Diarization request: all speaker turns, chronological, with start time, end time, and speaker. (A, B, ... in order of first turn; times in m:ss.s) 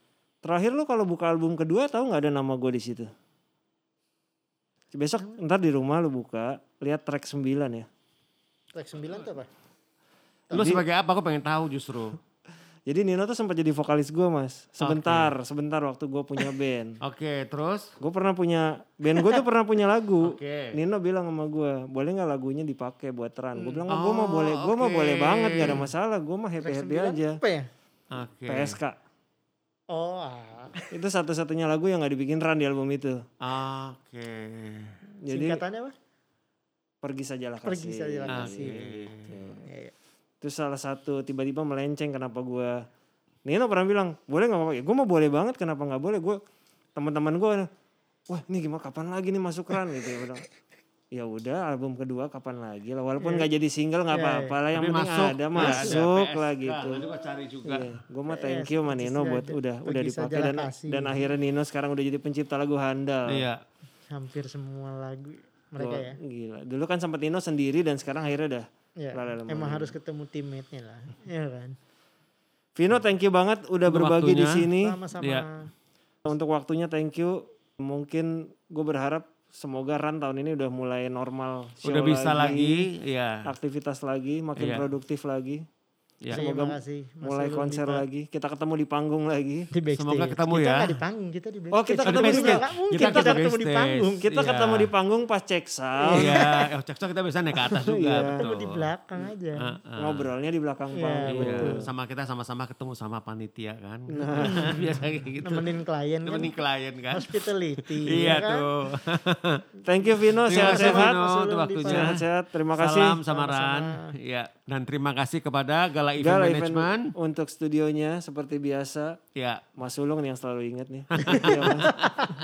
0:00.4-0:03.1 A
0:04.9-0:07.9 A
0:08.7-0:09.5 B
0:10.5-0:12.2 C
0:10.5-0:10.8 A
0:12.9-0:17.0 A
0:14.8-0:15.3 C
0:17.0-0:18.0 C
0:18.0-0:27.4 A
0:19.1-0:19.4 B
0:20.2-0:20.8 C
0:23.6-0:23.8 B
0:23.9-0:25.9 C
0:26.6-0:27.7 B
0:28.1-0:28.8 C
0:28.5-0:29.0 A
0:29.9-0:30.9 B
0:30.9-0:33.2 A
0:33.4-0:35.0 C
0:35.2-0:35.6 A
0:35.3-0:36.0 B
0:37.0-0:39.6 A
0:37.6-0:39.9 B
0:38.3-0:39.3 C
0:40.4-0:42.8 A
0:43.4-0:46.4 A
0:47.0-0:47.7 A
0:48.3-0:50.4 A
0:51.1-0:57.0 A
0:53.2-0:53.5 B
0:54.1-0:54.6 B
0:54.7-0:58.0 C
0:55.6-0:56.0 B
0:57.6-1:03.5 A
0:58.3-1:01.3 B
1:03.3-1:03.6 C
1:04.1-1:06.2 B
1:05.8-1:09.9 A
1:09.0-1:11.8 B
1:12.8-1:15.0 A
1:13.9-1:14.7 C
1:14.8-1:15.7 B
1:15.2-1:15.4 C
1:16.2-1:22.9 A
1:21.8-1:23.5 C
1:23.4-1:25.6 A
1:24.6-1:24.8 C
1:26.3-1:29.7 A
1:26.3-1:28.0 B
1:29.7-1:34.2 B
1:29.9-1:31.0 C
1:31.7-1:33.4 A
1:32.0-1:34.9 C
1:34.2-1:36.4 A
1:36.1-1:36.7 B
1:36.1-1:38.9 C
1:37.6-1:38.4 A
1:38.4-1:39.7 B
1:39.6-1:40.3 C
1:40.0-1:41.9 A
1:41.0-1:41.8 B
1:41.3-1:49.7 C
1:44.1-1:44.8 A
1:44.4-1:46.6 B
1:47.1-1:48.7 B
1:49.8-1:51.2 A
1:50.4-1:57.1 C
1:50.5-1:52.2 B
1:51.8-1:53.2 A
1:53.3-1:54.1 B
1:56.2-1:59.2 A
1:59.4-1:59.6 C
1:59.8-2:02.0 A
2:01.1-2:02.3 C
2:01.2-2:02.3 B